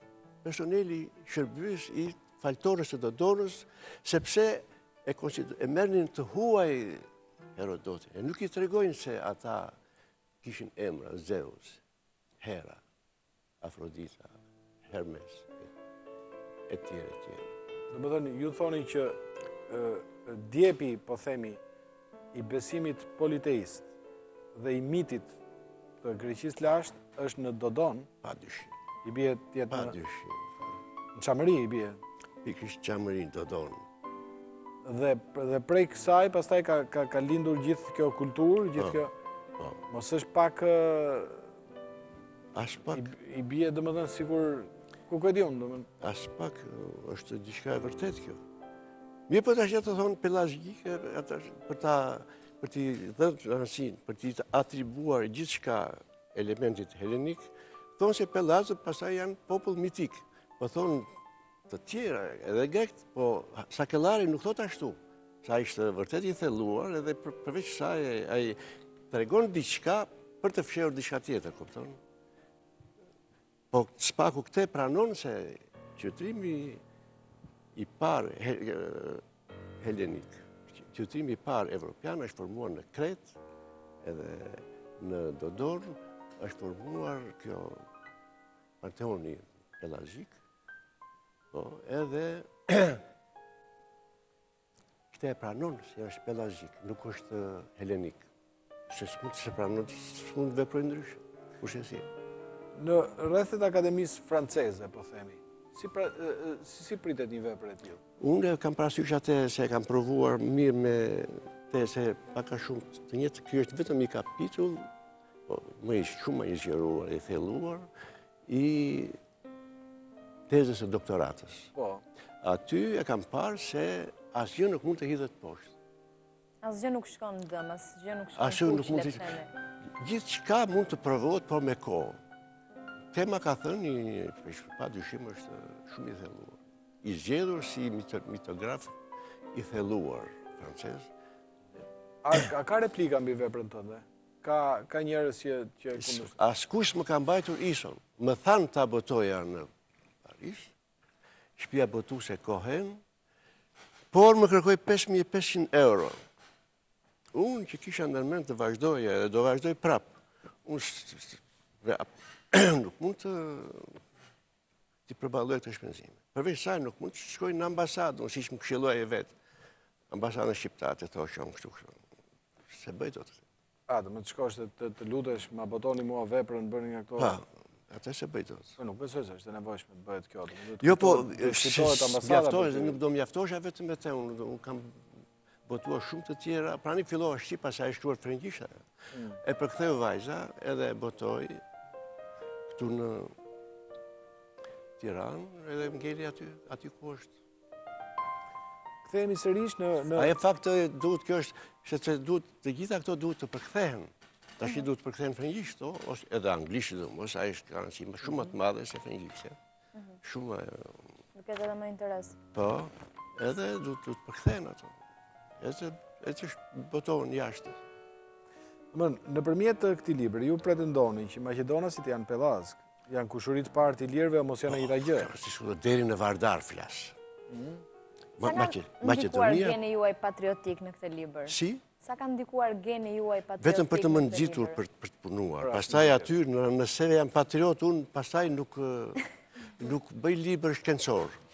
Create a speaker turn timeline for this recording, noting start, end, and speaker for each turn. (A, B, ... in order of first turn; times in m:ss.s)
0:00.4-0:07.0 A
0:07.6-0:09.8 A
0:10.4-0:11.8 A
0:12.4-0:12.8 A
0:13.6-0:15.7 A
0:16.7-0:17.5 A
0:17.9-0:21.6 B
0:22.3-0:23.9 B
0:24.5-0:25.3 B
0:26.0-0:28.1 B
0:28.2-0:28.7 A
0:29.0-0:29.9 B
0:29.7-0:30.7 A
0:31.1-0:32.0 B
0:32.4-0:33.8 A
0:34.8-0:39.1 B
0:39.9-0:41.4 B
0:42.5-0:43.1 A
0:42.9-0:45.9 B
0:46.0-0:48.4 A
0:49.3-0:57.4 A
0:58.0-1:01.1 A
1:01.7-1:08.6 A
1:09.1-1:12.0 A
1:13.7-1:16.8 A
1:17.7-1:19.2 A
1:19.8-1:23.4 A
1:24.0-1:27.8 A
1:28.8-1:30.4 A
1:31.5-1:33.0 A
1:35.1-1:38.2 A
1:38.9-1:42.0 A
1:42.8-1:48.0 B
1:48.2-1:54.9 A
1:55.5-1:57.9 A
1:58.5-1:59.2 A
2:00.5-2:01.7 A
2:01.7-2:02.0 B
2:02.4-2:05.7 A
2:06.6-2:09.5 C
2:08.4-2:09.4 A
2:10.0-2:12.2 A
2:13.1-2:19.0 A
2:19.5-2:21.1 A
2:22.2-2:26.3 B
2:26.0-2:29.7 A
2:30.2-2:30.7 A
2:31.6-2:33.0 A
2:34.1-2:36.2 A
2:37.3-2:43.9 A
2:45.1-2:49.3 A
2:50.1-2:52.0 A
2:52.7-2:53.4 A
2:53.9-2:57.4 B
2:57.2-2:58.8 A
2:58.8-3:03.0 B
3:00.8-3:05.0 A
3:05.7-3:08.8 A
3:09.1-3:09.4 B
3:09.4-3:11.6 A
3:12.7-3:13.3 A
3:15.0-3:17.3 A
3:19.0-3:20.3 B
3:20.1-3:29.6 A
3:30.2-3:31.0 A
3:31.3-3:32.4 C
3:32.5-3:35.0 A
3:35.6-3:37.8 A
3:38.9-3:45.3 B
3:45.0-3:47.2 A
3:47.5-3:47.8 B
3:48.4-3:49.8 A
3:48.4-3:54.8 C
3:51.4-3:51.8 A
3:53.6-3:59.3 A
3:55.6-3:56.3 B
3:59.8-4:01.4 A